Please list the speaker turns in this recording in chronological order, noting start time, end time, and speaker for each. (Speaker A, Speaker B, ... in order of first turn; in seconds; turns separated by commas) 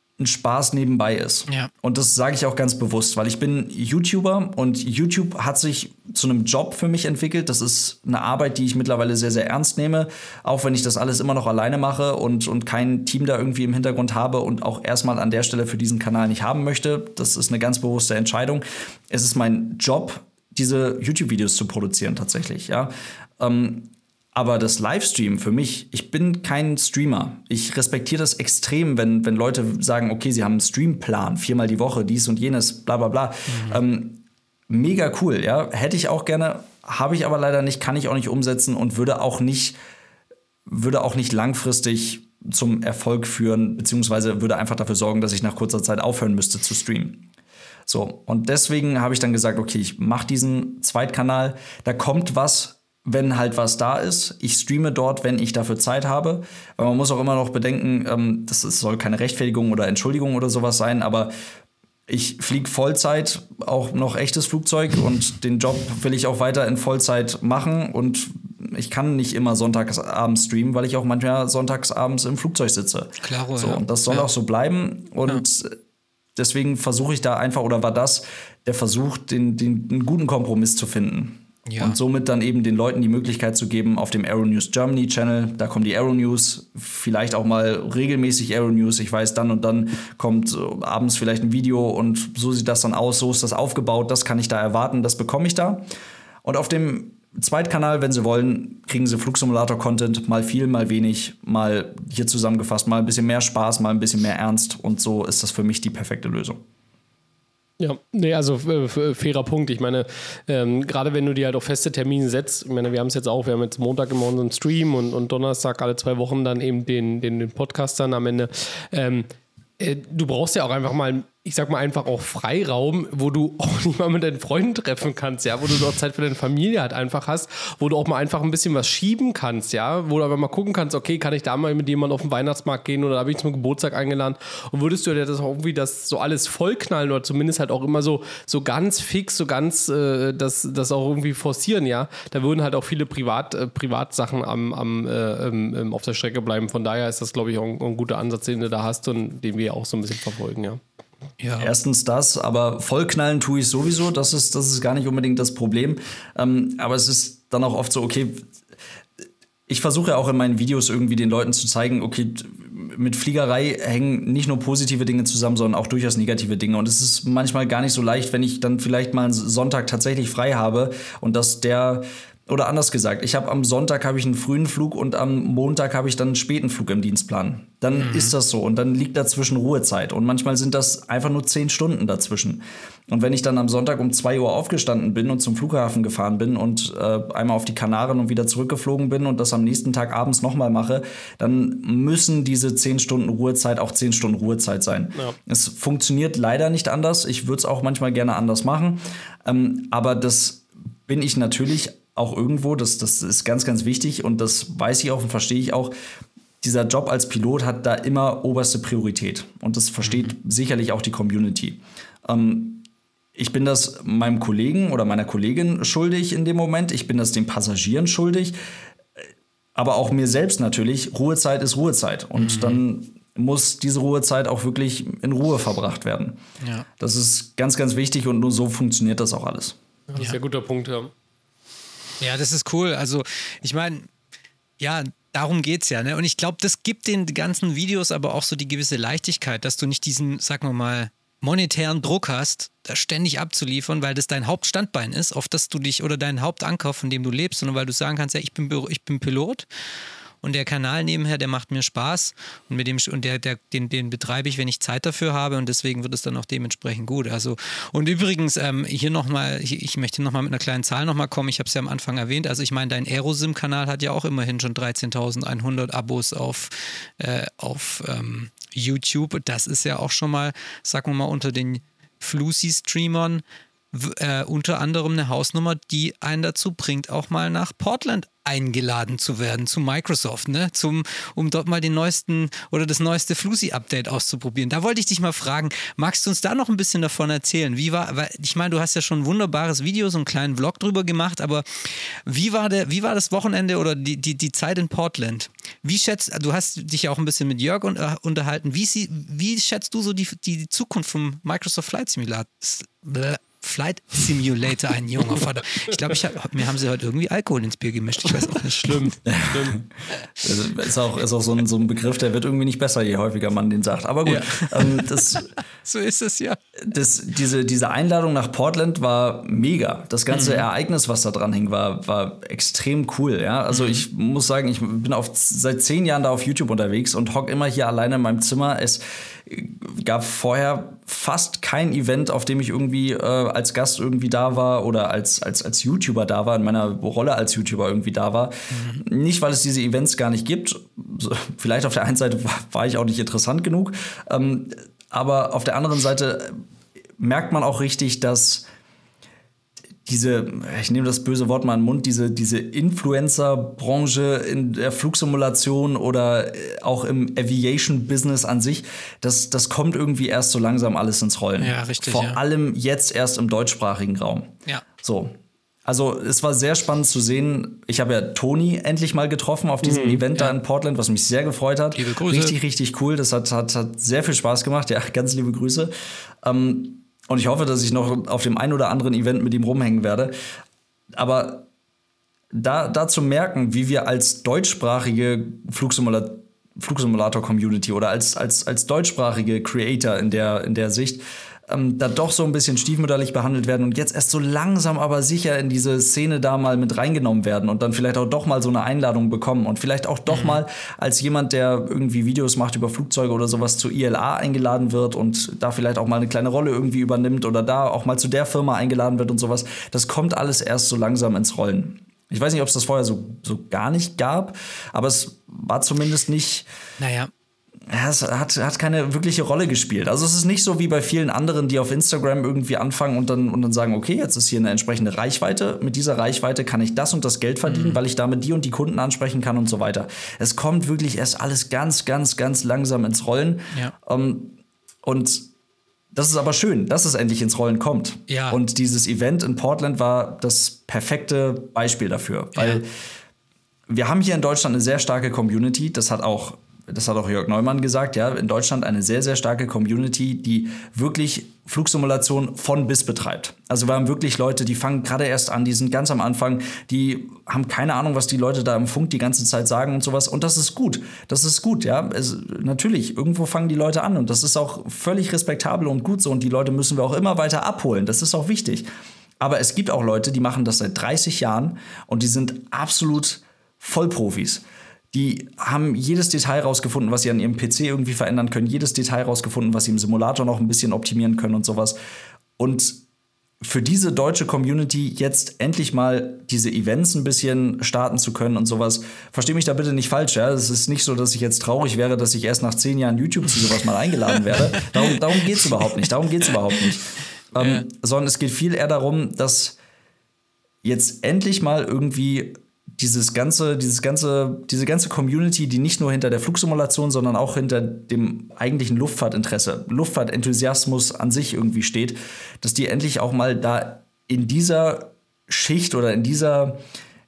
Speaker A: 0.2-39.8, Speaker B: 33.5-33.8, Speaker A: 40.7-47.2, Speaker A: 47.9-61.3, Speaker A: 62.1-75.8, Speaker B: 73.2-74.3, Speaker A: 76.3-95.8, Speaker B: 81.7-82.0, Speaker A: 96.4-106.6, Speaker C: 107.8-119.3, Speaker C: 119.8-150.8, Speaker B: 151.4-151.7, Speaker A: 151.6-158.5, Speaker A: 159.7-205.9, Speaker B: 177.9-178.3, Speaker A: 206.6-212.8, Speaker B: 210.0-210.3, Speaker A: 213.3-218.6, Speaker A: 219.7-226.4, Speaker B: 222.3-222.8, Speaker B: 226.6-226.9, Speaker A: 227.0-229.8, Speaker C: 230.1-231.1, Speaker B: 232.2-234.1, Speaker B: 234.8-249.7, Speaker B: 250.4-309.1, Speaker C: 308.8-309.8, Speaker A: 309.2-309.8, Speaker A: 310.4-315.5, Speaker B: 314.2-316.6, Speaker A: 316.8-346.6, Speaker B: 320.3-320.6, Speaker B: 323.7-324.0, Speaker B: 338.7-339.0, Speaker A: 347.2-348.7, Speaker A: 350.1-375.9, Speaker B: 361.6-362.4, Speaker C: 369.8-370.2, Speaker B: 371.9-372.5, Speaker A: 376.4-380.3, Speaker A: 381.1-381.7, Speaker A: 382.5-416.7, Speaker B: 400.3-400.6, Speaker B: 417.0-417.3, Speaker A: 417.9-435.5, Speaker B: 427.6-428.0, Speaker A: 436.1-442.9, Speaker B: 438.3-438.6, Speaker B: 442.5-442.8, Speaker A: 443.9-468.9, Speaker A: 469.4-482.0, Speaker A: 482.6-483.0, Speaker A: 483.6-497.0, Speaker A: 497.5-499.8, Speaker B: 497.6-497.8, Speaker A: 500.8-516.8